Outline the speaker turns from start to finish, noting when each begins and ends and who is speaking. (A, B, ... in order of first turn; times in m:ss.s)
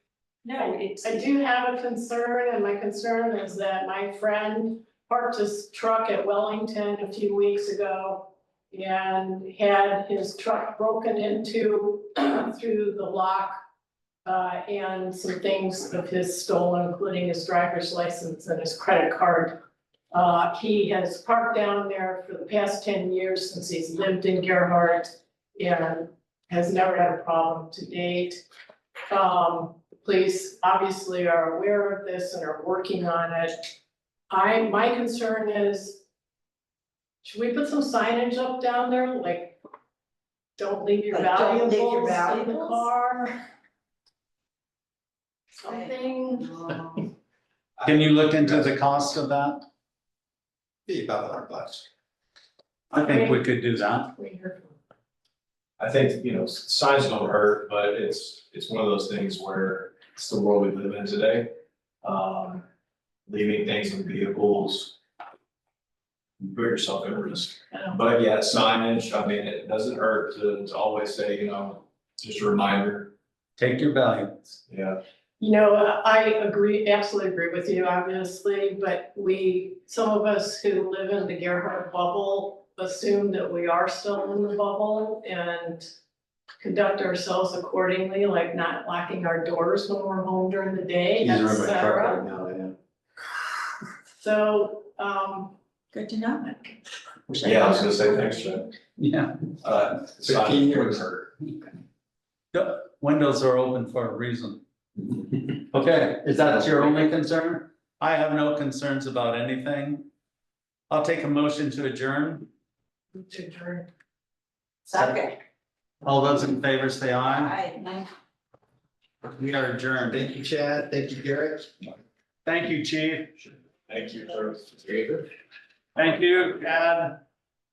0:00.4-0:01.2 A
0:00.6-0:13.6 B
0:14.2-0:19.6 B
0:20.1-0:28.4 B
0:29.1-0:33.7 B
0:34.3-0:36.0 B
0:37.2-0:39.6 B
0:40.6-0:43.4 B
0:41.1-0:42.8 A
0:45.6-0:46.6 B
0:46.5-0:46.9 A
0:47.8-0:48.8 C
0:47.8-0:49.6 D
0:50.9-0:51.9 C
0:52.9-0:54.1 D
0:53.0-0:54.8 B
0:55.8-1:01.5 E
1:02.0-1:02.6 E
1:03.3-1:04.9 E
1:06.4-1:13.1 E
1:07.7-1:08.0 B
1:13.6-1:14.4 D
1:14.7-1:14.9 E
1:15.4-1:25.9 B
1:26.6-1:32.2 B
1:31.2-1:32.8 C
1:34.2-1:35.6 B
1:35.9-1:36.7 A
1:37.3-1:38.1 A
1:37.4-1:38.7 E
1:39.0-1:39.3 D
1:39.6-1:41.3 E
1:40.2-1:41.0 C
1:42.5-1:44.6 D
1:45.7-1:50.1 D
1:50.9-1:52.5 D
1:53.3-1:53.8 B
1:54.9-1:55.3 A
1:54.9-1:55.3 D
1:56.0-1:57.6 D
1:57.4-1:58.1 A
1:59.2-2:00.3 D
2:00.1-2:01.7 C
2:02.4-2:03.3 D
2:03.9-2:05.2 E
2:06.0-2:07.2 D